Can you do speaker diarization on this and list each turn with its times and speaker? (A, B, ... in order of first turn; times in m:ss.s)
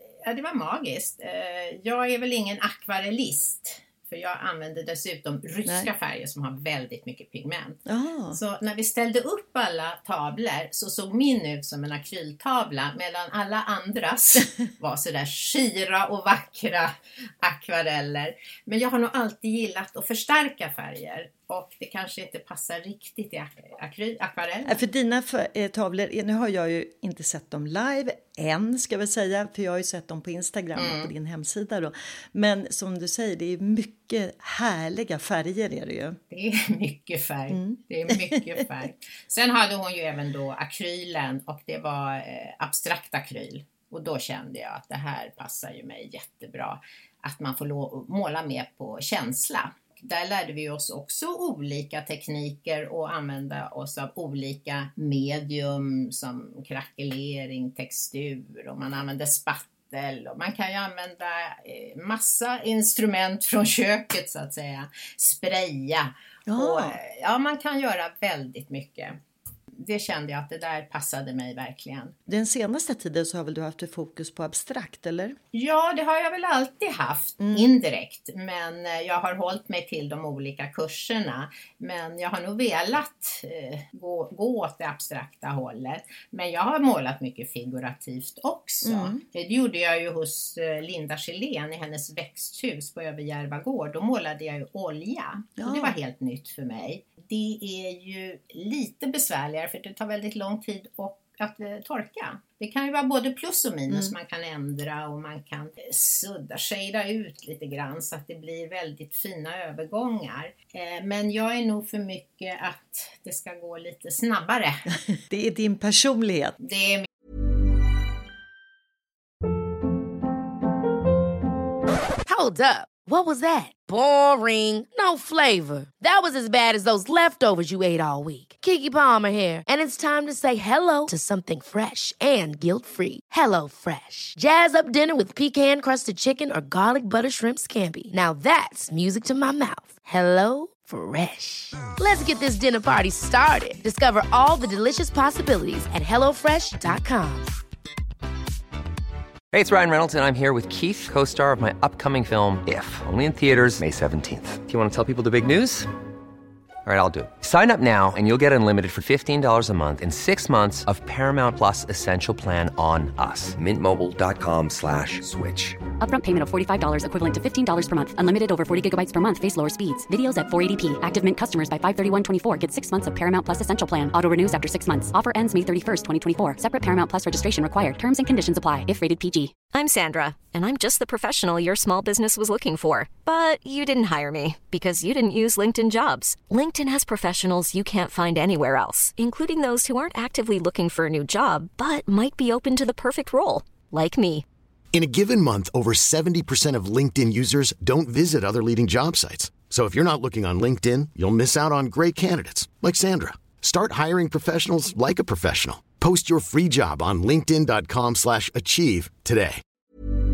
0:00.2-0:07.8 A
0:07.9-0:08.4 B
0:08.3-0:24.8 A
0:24.7-0:36.2 B
0:30.8-0:31.1 A
0:36.3-1:09.2 A
0:37.5-0:38.4 B
1:06.5-1:07.0 B
1:09.7-1:12.2 A
1:12.3-1:15.4 B
1:15.5-1:54.9 A
1:17.4-1:17.7 B
1:28.8-1:29.2 B
1:35.6-1:36.0 B
1:43.9-1:44.1 B
1:55.2-1:56.6 B
1:56.6-1:57.1 A
2:02.2-2:27.5 C
2:29.5-2:35.9 D
2:36.8-2:45.8 D
2:46.0-2:59.6 E
2:59.7-3:14.4 F
3:14.9-3:29.6 G